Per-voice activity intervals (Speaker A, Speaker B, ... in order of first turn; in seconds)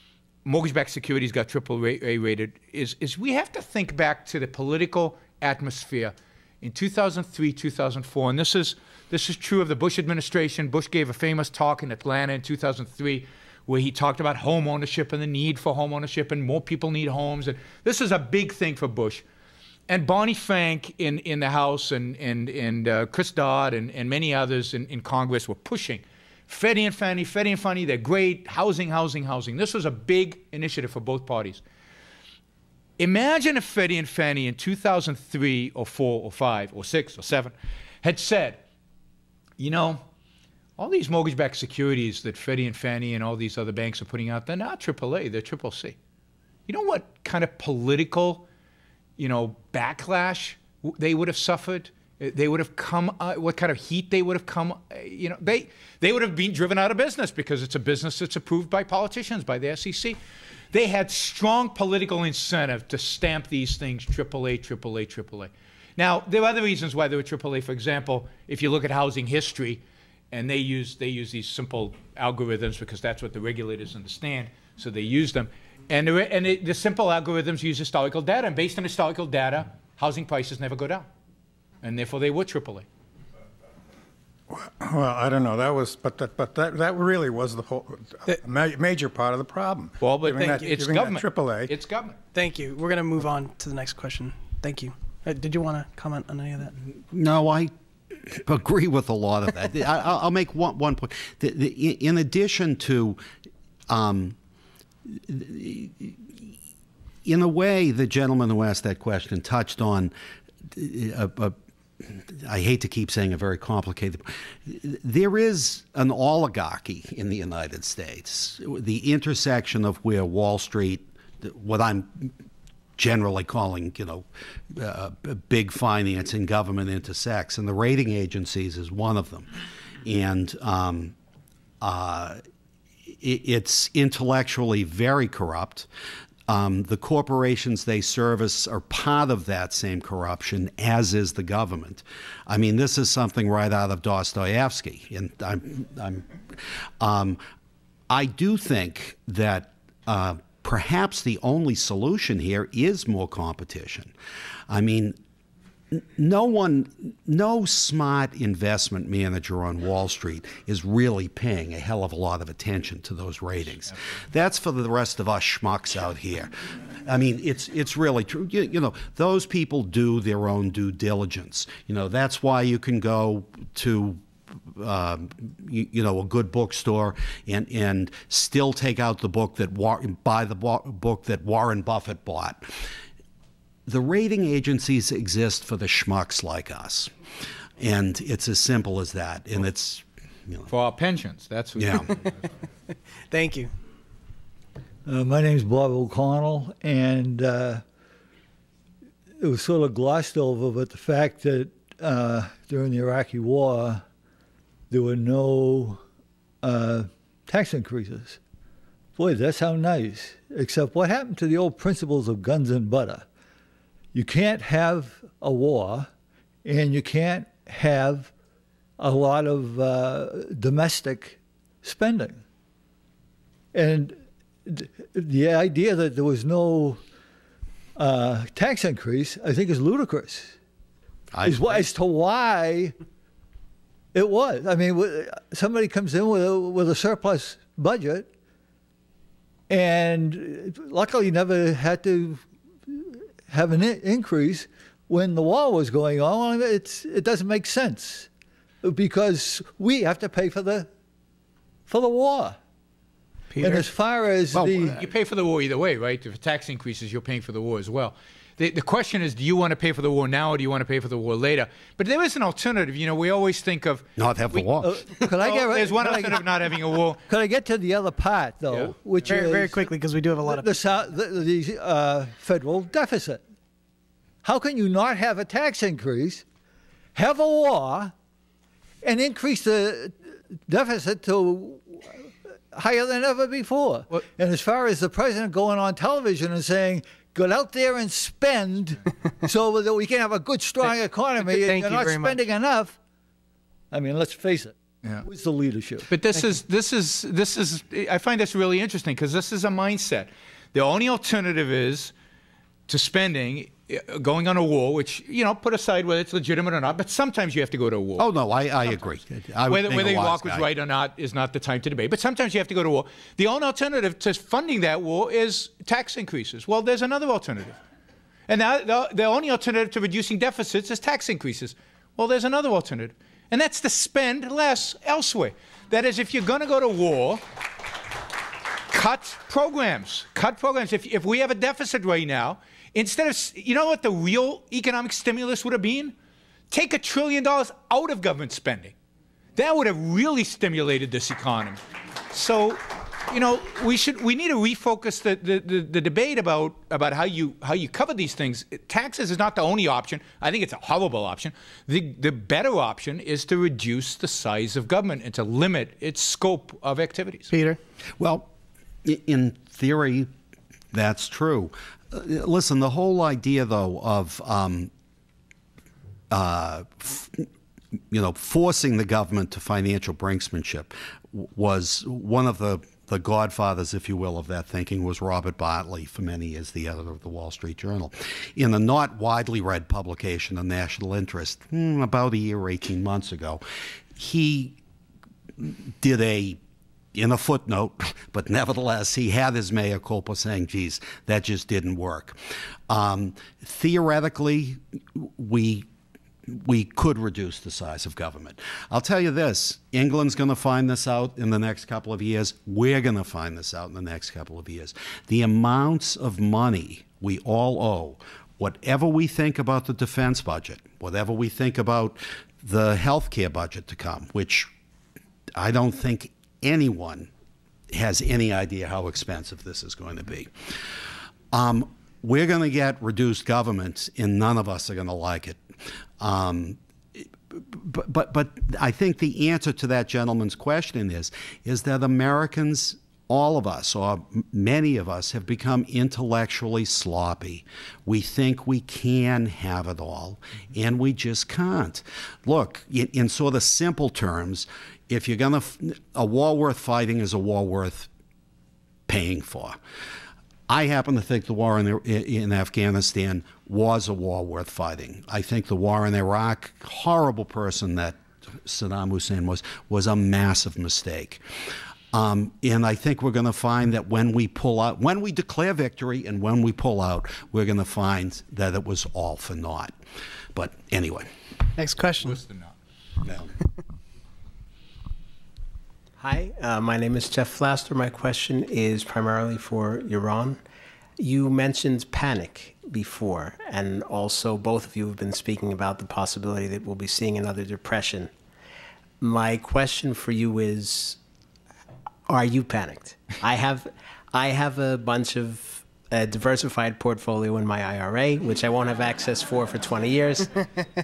Speaker A: 0.5-19.2, 19.9-31.6, 33.0-38.6, 39.6-40.0, 40.8-46.0, 46.7-48.5, 49.2-60.2, 60.7-81.1, 81.8-82.9, 90.0-92.2, 190.7-192.3, 255.0-264.7, 265.2-267.2, 296.1-302.1, 302.9-308.3, 309.7-317.8, 318.5-327.4, 328.9-336.1, 336.7-338.9, 339.6-341.8, 342.3-357.5, 472.2-472.8
Speaker B: 84.5-91.7
Speaker C: 92.3-96.8, 193.3-193.7, 253.5-253.9, 269.3-270.8, 291.5-292.4, 357.5-357.8, 471.8-472.4
Speaker D: 97.1-103.2, 103.9-104.4, 105.1-106.5, 107.2-110.1, 110.7-122.3, 123.0-129.5, 130.0-131.2, 131.8-132.4, 133.2-135.9, 136.5-146.3, 147.0-147.4, 148.1-154.1, 154.7-155.2, 155.9-182.7, 183.9-187.1, 187.8-190.7, 191.8-192.1, 231.3-231.9, 254.5-254.9, 264.2-265.1, 308.2-310.7, 358.2-358.5, 359.0-360.3, 360.9-364.9, 366.3-367.5, 368.1-383.6, 384.2-384.8, 385.6-386.6, 387.1-392.4, 392.9-395.9, 396.5-414.7, 415.6-417.3, 417.9-420.5, 421.5-425.6, 426.2-448.1, 449.1-449.8, 450.7-461.4, 462.1-470.0, 470.5-471.3
Speaker E: 195.1-197.8, 199.4-204.0, 204.9-206.0, 206.6-208.4, 209.2-213.3, 214.1-216.1, 216.6-218.3, 219.0-222.4, 223.7-227.0, 228.0-230.6, 231.4-232.9, 234.1-238.3, 239.7-248.3, 248.8-250.9, 251.9-252.6, 253.6-255.0, 264.8-266.5, 267.3-269.9, 270.4-273.4, 274.4-276.4, 277.1-278.1, 279.0-293.0, 293.9-296.1
Speaker F: 476.2-480.6, 481.2-488.3, 489.2-491.2, 492.3-500.7